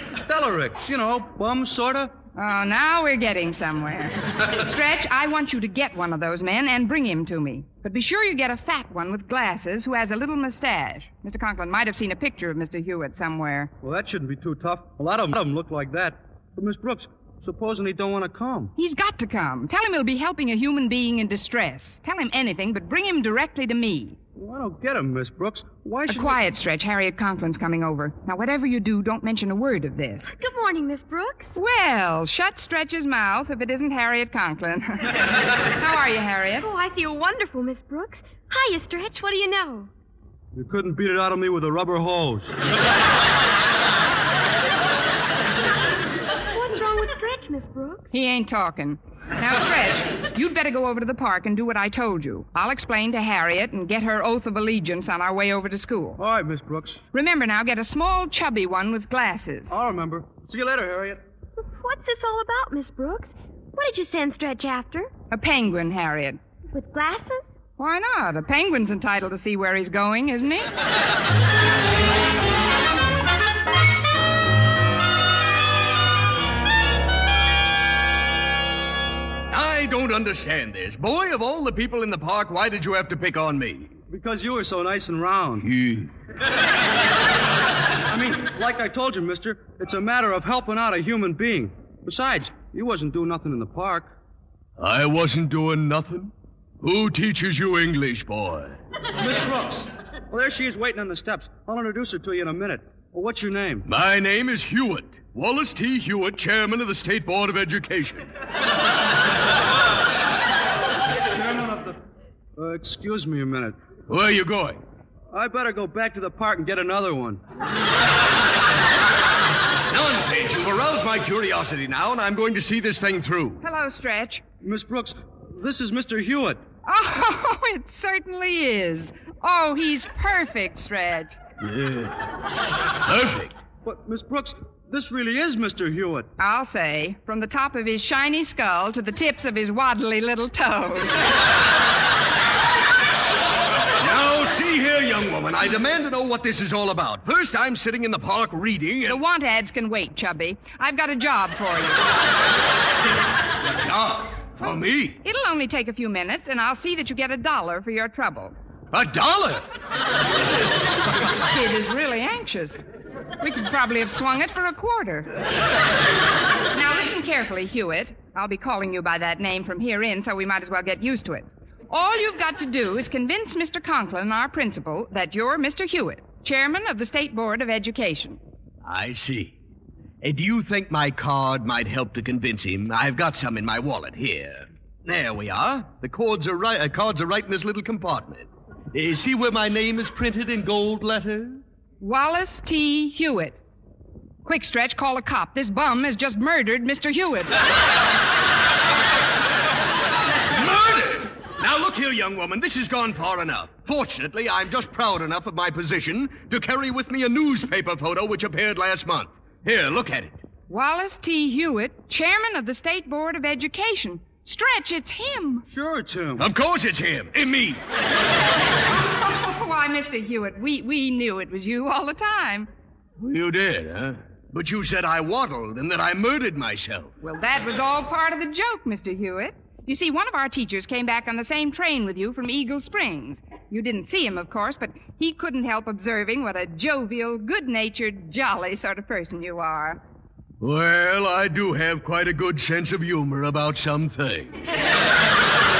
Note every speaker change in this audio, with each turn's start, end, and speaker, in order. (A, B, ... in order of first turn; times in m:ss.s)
0:00.3-0:02.1 A
0:02.3-0:13.7 B
0:13.8-0:18.7 A
0:18.8-0:24.2 B
0:24.4-0:26.4 A
0:26.1-0:30.3 B
0:30.3-0:31.5 C
0:31.5-0:35.2 B
0:35.7-0:36.7 B
0:36.6-0:39.9 C
0:40.5-0:42.5 A
0:46.5-0:48.1 C
0:48.1-0:56.2 B
0:56.2-0:57.0 A
0:57.1-0:59.7 B
0:59.7-1:01.2 A
1:01.6-1:05.1 C
1:05.3-1:06.4 B
1:06.7-1:07.5 C
1:07.8-1:10.7 B
1:19.5-1:23.9 D
1:24.1-1:25.7 A
1:25.6-1:26.1 D
1:28.1-1:34.1 A
1:34.8-1:38.8 D
1:39.2-1:43.8 A
1:43.8-1:48.3 D
1:51.2-1:52.0 A
1:52.6-1:53.8 A
1:54.1-1:54.8 D
1:55.3-1:57.4 A
1:59.9-2:03.6 D
2:03.6-2:04.4 B
2:04.6-2:06.6 A
2:06.8-2:11.4 B
2:11.6-2:12.3 D
2:13.0-2:13.5 D
2:13.8-2:16.3 A
2:16.4-2:21.4 B
2:24.0-2:29.2 D
2:29.0-2:32.1 B
2:33.6-2:35.2 D
2:35.2-2:38.5 B
2:38.9-2:39.6 D
2:41.1-2:42.8 B
2:43.4-2:45.3 B
2:46.7-2:58.4 B
2:58.8-2:59.6 D
3:00.2-3:11.6 D
3:12.0-3:13.6 B
3:14.4-3:17.6 B
3:20.5-3:30.4 D
3:30.7-3:35.6 B
3:35.7-3:36.5 A
3:36.4-3:37.8 D
3:39.0-3:42.7 B
3:43.2-3:47.1 D
3:47.2-4:00.0 B
4:00.6-4:04.5 D